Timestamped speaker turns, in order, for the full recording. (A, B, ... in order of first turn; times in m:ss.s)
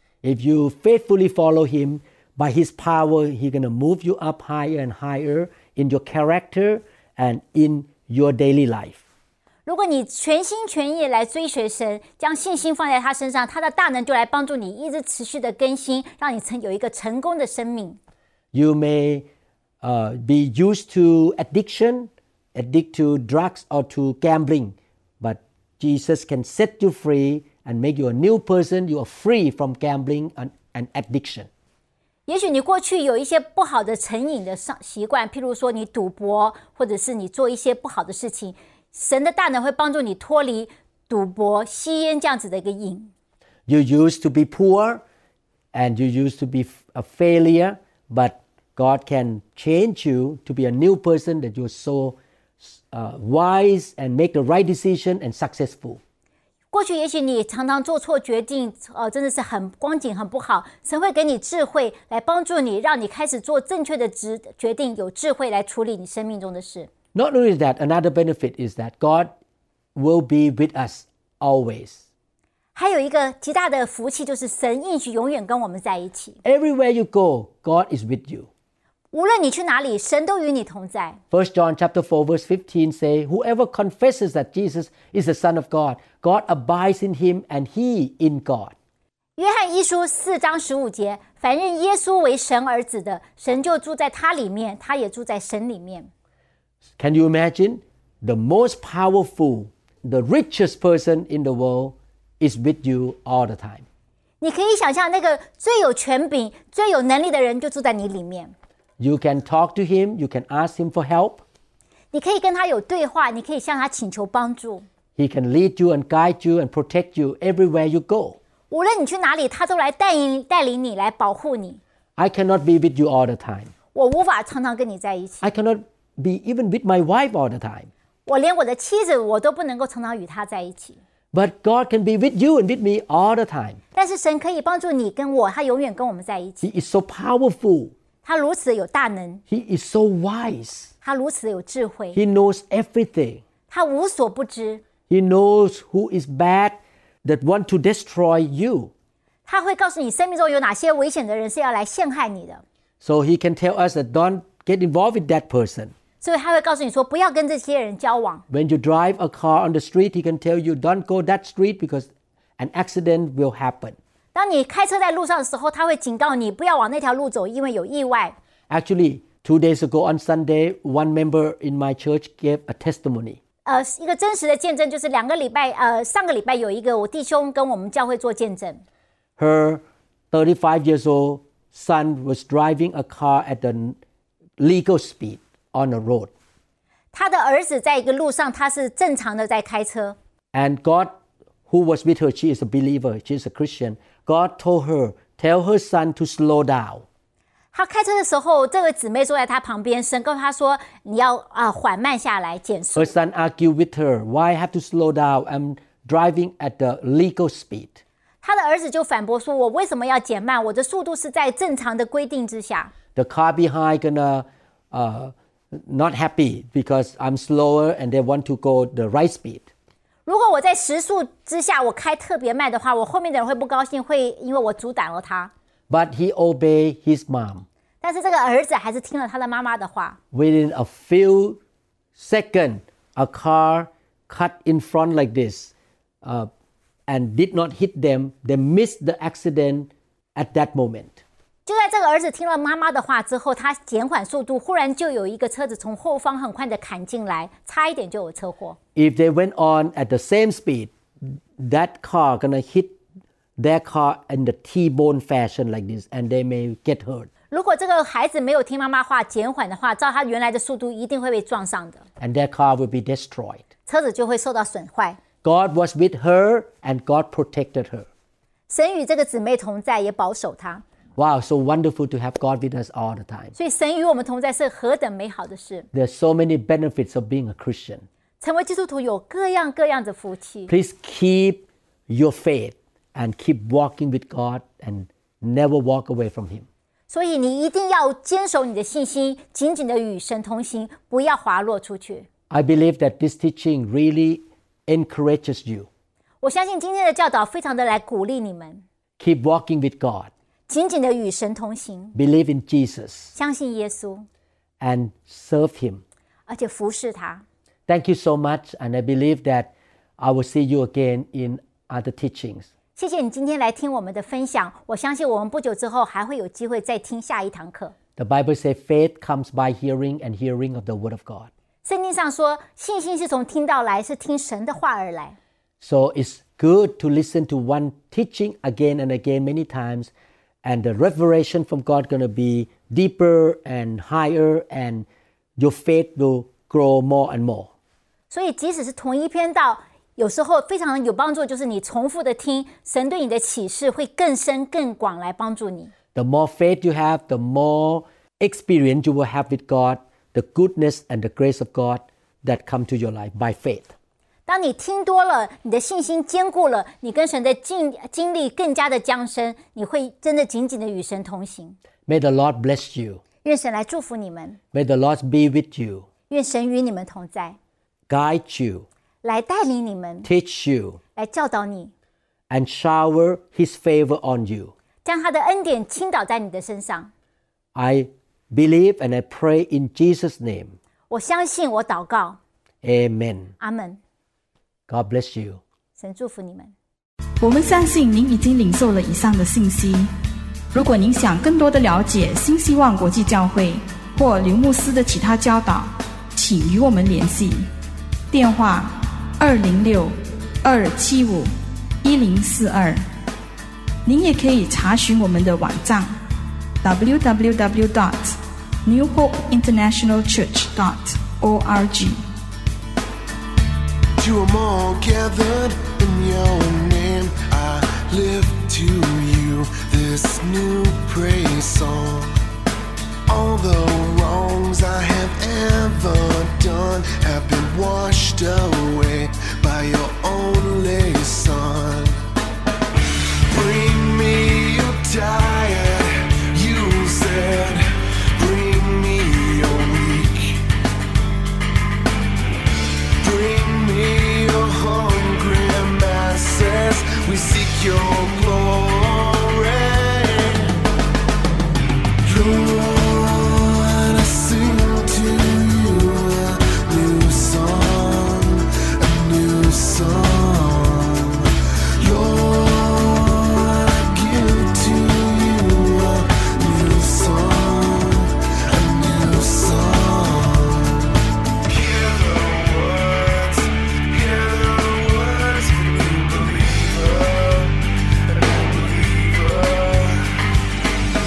0:00.2-0:09.0 A
0:09.6-0:18.0 B
0:18.5-0:19.3 A
0:19.8-0:31.5 A
0:32.3-0:43.1 B
0:43.7-0:45.0 A
0:45.7-0:56.0 A
0:56.7-1:06.9 B
1:07.1-1:09.3 A
1:09.9-1:12.0 A
1:12.7-1:16.4 B
1:16.4-1:18.5 A
1:19.1-1:21.2 B
1:21.3-1:28.7 A
1:29.4-1:36.1 B
1:37.0-1:43.8 A
1:44.4-1:48.5 B
1:49.0-1:51.4 A
1:52.1-1:54.8 B
1:55.2-1:58.4 A
1:58.7-2:01.8 B
2:02.2-2:03.7 A
2:03.9-2:05.4 B
2:05.4-2:07.9 A
2:08.2-2:11.0 B
2:11.3-2:13.8 A
2:13.9-2:16.6 B
2:16.6-2:17.9 A
2:18.2-2:19.4 B
2:19.5-2:20.9 A
2:21.0-2:22.2 B
2:22.1-2:23.4 A
2:23.7-2:24.8 B
2:25.1-2:28.9 A
2:29.4-2:32.6 B
2:33.0-2:35.9 A
2:36.2-2:38.4 B
2:38.5-2:44.0 A
2:44.3-2:48.3 B
2:48.7-2:53.4 A
2:53.6-2:58.8 B
2:59.4-3:04.0 A
3:04.6-3:06.3 A
3:07.1-3:10.2 B
3:10.5-3:11.2 A
3:11.7-3:17.0 A
3:17.7-3:23.1 B
3:22.9-3:28.0 A
3:28.4-3:32.9 B
3:33.1-3:39.7 A
3:40.2-3:45.5 B
3:45.9-3:47.6 A
3:48.0-3:50.2 B
3:50.3-3:51.6 A
3:52.2-3:55.7 A
3:56.2-3:56.5 A
3:57.1-4:01.2 A
4:01.6-4:08.8 B
4:08.9-4:13.0 A
4:13.6-4:17.3 A
4:17.5-4:22.0 B
4:22.2-4:23.6 A
4:23.9-4:25.2 B
4:25.4-4:28.1 A
4:28.7-4:30.8 B
4:31.2-4:33.5 A
4:33.6-4:35.9 B
4:35.9-4:38.0 A
4:38.4-4:40.7 B
4:40.7-4:46.7 A
4:47.1-4:52.3 B
4:52.5-4:55.9 A
4:56.4-4:58.8 B
4:59.2-5:00.3 A
5:00.7-5:02.1 B
5:02.1-5:03.4 A
5:03.4-5:04.3 B
5:04.8-5:06.0 A
5:06.5-5:07.4 B
5:07.9-5:12.7 A
5:13.0-5:17.9 B
5:18.2-5:21.5 A
5:21.8-5:25.4 B
5:25.8-5:30.1 A
5:30.6-5:37.7 A
5:38.3-5:45.9 B
5:46.1-5:53.9 A
5:54.5-6:01.8 B
6:02.1-6:03.2 A
6:03.4-6:04.6 B
6:04.7-6:06.1 A
6:06.3-6:07.6 B
6:08.1-6:08.8 A
6:09.2-6:10.3 B
6:10.2-6:11.0 A
6:11.2-6:11.9 B
6:12.5-6:14.7 A
6:15.0-6:17.1 B
6:17.7-6:20.8 A
6:21.1-6:22.4 B
6:22.8-6:23.5 A
6:23.6-6:24.0 B
6:24.9-6:25.6 A
6:26.0-6:26.7 B
6:27.4-6:30.1 C
6:30.7-6:37.7 C
6:38.3-6:41.5 C
6:42.0-6:43.0 C
6:44.0-6:46.1 C
6:46.8-6:52.2 C
6:54.2-7:02.4 D
7:03.3-7:12.2 D
7:13.5-7:20.6 D
7:23.2-7:30.8 D
7:32.2-8:00.4 D